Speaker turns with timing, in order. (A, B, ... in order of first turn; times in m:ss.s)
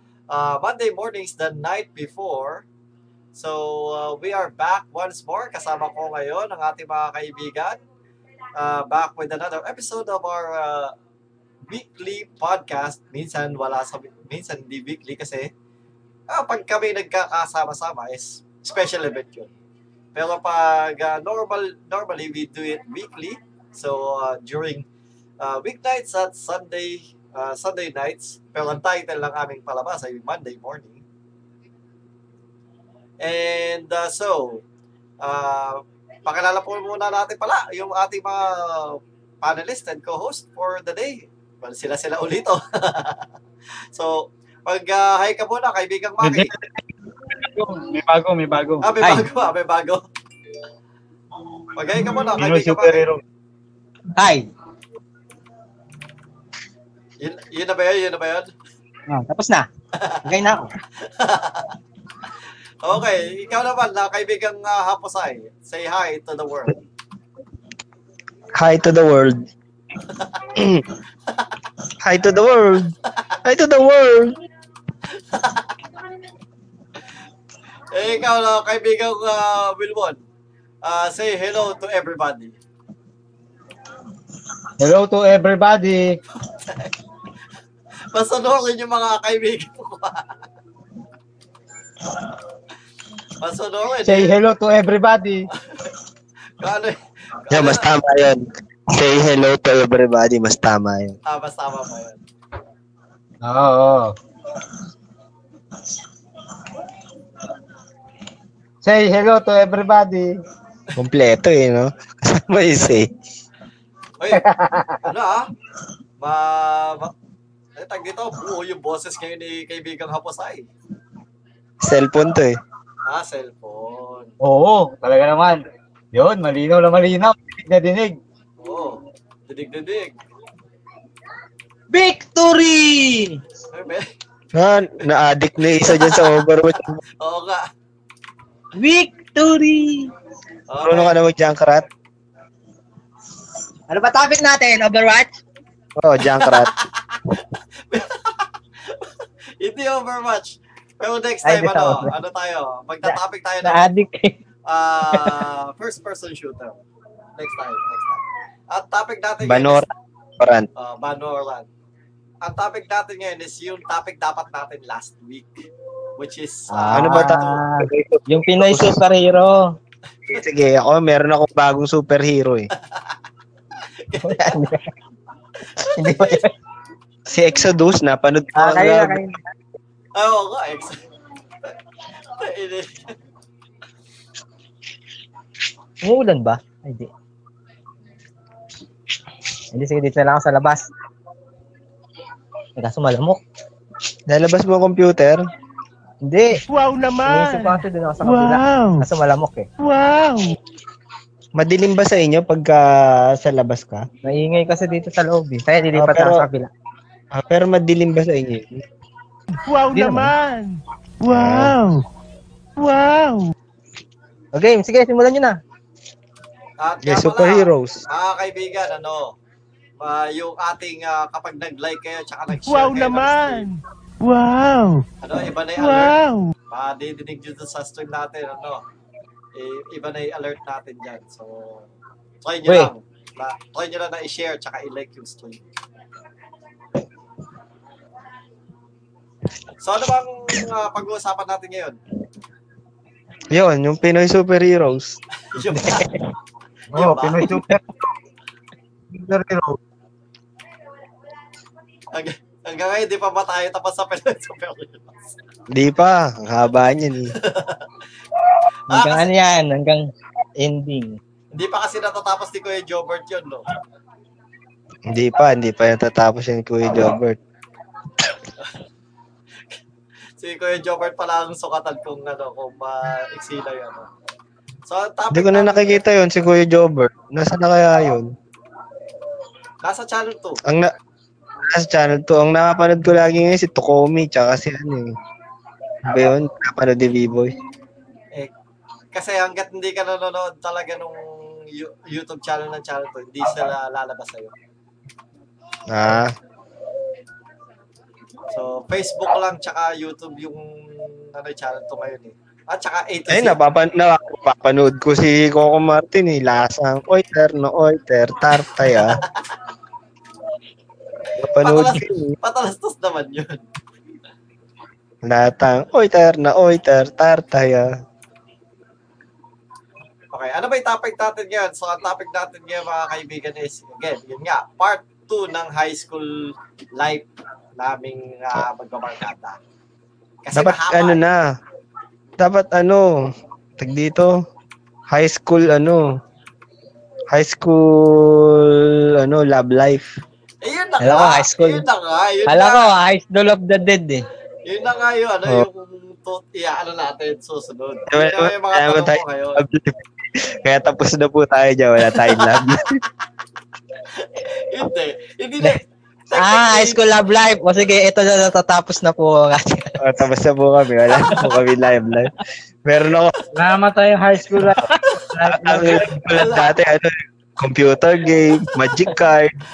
0:00.3-0:02.6 A
0:03.3-0:07.8 A
0:08.6-0:10.9 A
0:11.7-0:15.5 A
0:16.3-0:19.5 A
0:20.2-0:24.9 A
0:25.4-0:31.0 A
0:33.2-0:34.6 A
0:35.2-0:43.2 A
0:43.9-0:46.5 A
0:46.2-0:46.5 B
0:47.3-0:49.3 B
0:48.8-0:50.0 A
0:51.8-0:53.0 A
0:52.3-0:53.2 B
0:54.2-0:54.5 C
0:57.2-0:58.5 A
0:59.1-0:59.7 C
1:00.0-1:00.2 A
1:00.2-1:00.7 C
1:01.0-1:01.7 A
1:02.8-1:06.8 A
1:08.6-1:09.4 D
1:10.1-1:10.4 A
1:10.6-1:10.9 D
1:12.0-1:12.9 D
1:13.4-1:14.3 D
1:15.1-1:15.7 A
1:17.9-1:20.2 A
1:20.8-1:22.6 A
1:24.8-1:26.2 B
1:26.5-1:27.0 A
1:28.1-1:30.3 A
1:33.4-1:34.4 A
1:34.0-1:35.5 B
1:35.6-1:35.9 A
1:36.6-1:37.9 A
1:37.5-1:41.2 D
1:41.3-1:42.2 A
1:43.4-1:44.2 B
1:48.8-1:50.4 B
1:51.0-1:53.1 D
1:54.2-1:54.4 A
1:54.3-1:55.0 B
1:55.0-1:55.5 A
1:56.2-1:57.1 A
1:57.8-2:00.7 A
2:01.8-2:02.6 D
2:03.0-2:04.3 A
2:04.4-2:05.6 B
2:06.1-2:08.2 B
2:08.6-2:10.2 A
2:11.9-2:13.4 C
2:13.7-2:14.1 A
2:14.5-2:17.0 D
2:15.8-2:16.4 A
2:17.2-2:17.7 A
2:18.8-2:20.1 C
2:20.7-2:21.2 A
2:20.8-2:21.9 D
2:23.9-2:25.4 C
2:26.0-2:26.7 D
2:26.4-2:27.4 A
2:27.9-2:29.1 A
2:29.6-2:33.8 A
2:31.4-2:32.1 C
2:33.0-2:34.4 C
2:34.7-2:36.8 A
2:35.1-2:35.5 C
2:37.4-2:39.8 A
2:39.4-2:40.7 D
2:40.8-2:41.7 A
2:42.4-2:45.6 A
2:46.2-2:47.6 A
2:46.7-2:49.7 C
2:46.9-2:49.0 D
2:50.3-2:52.7 D
2:54.0-2:54.6 A
2:54.2-2:54.9 C
2:55.8-2:56.4 A
2:55.8-2:56.5 C
2:57.3-2:59.2 D
2:58.6-2:59.4 C
3:00.2-3:01.0 A
3:02.4-3:03.1 A
3:06.0-3:07.1 C
3:09.7-3:10.9 C
3:12.8-3:13.4 C
3:14.3-3:15.4 D
3:16.2-3:16.6 C
3:16.7-3:19.1 E
3:17.2-3:19.7 C
3:19.8-3:20.6 E
3:21.6-3:24.1 D
3:24.2-3:26.7 C
3:25.9-3:26.5 D
3:27.3-3:28.8 D
3:29.7-3:32.0 E
3:29.9-3:30.3 D
3:31.3-3:31.8 D
3:32.8-3:33.5 E
3:34.6-3:35.6 C
3:36.8-3:39.4 A
3:37.0-3:38.0 D
3:40.0-3:43.7 A
3:42.5-3:45.0 E
3:45.2-3:46.2 A
3:45.8-3:46.5 E
3:46.7-3:48.8 A
3:49.5-3:51.9 A
3:52.4-3:55.6 A
3:59.8-4:02.0 A
4:03.5-4:05.2 D
4:05.5-4:06.1 A
4:06.9-4:07.5 A
4:06.9-4:07.8 B
4:09.1-4:09.8 B
4:12.1-4:15.2 A
4:15.7-4:17.3 D
4:17.4-4:17.9 A
4:18.9-4:19.3 A
4:18.9-4:21.2 C
4:21.5-4:23.7 A
4:25.1-4:27.4 D
4:30.4-4:34.1 A
4:34.9-4:36.0 A
4:35.3-4:38.3 D
4:39.8-4:40.6 A
4:40.7-4:40.9 D
4:41.6-4:45.1 D
4:46.0-4:47.5 D
4:49.1-4:54.5 A
4:55.9-4:56.3 D
4:58.5-5:03.6 A
5:03.3-5:09.2 D
5:09.0-5:09.5 A
5:11.4-5:12.4 D
5:11.6-5:13.6 A
5:15.2-5:17.9 D
5:20.3-5:29.6 A
5:30.4-5:31.2 A
5:30.5-5:31.5 D
5:32.4-5:33.3 D
5:33.8-5:34.4 D
5:35.1-5:36.1 D
5:37.3-5:40.1 D
5:40.6-5:42.9 A
5:41.0-5:41.8 C
5:42.5-5:44.2 C
5:44.7-5:49.6 A
5:48.1-5:53.0 D
5:52.3-5:52.6 A
5:54.1-5:57.0 A
5:56.4-6:00.0 C
6:00.0-6:02.3 D
6:02.8-6:03.4 D
6:03.6-6:06.0 B
6:05.5-6:09.6 D
6:06.3-6:06.7 A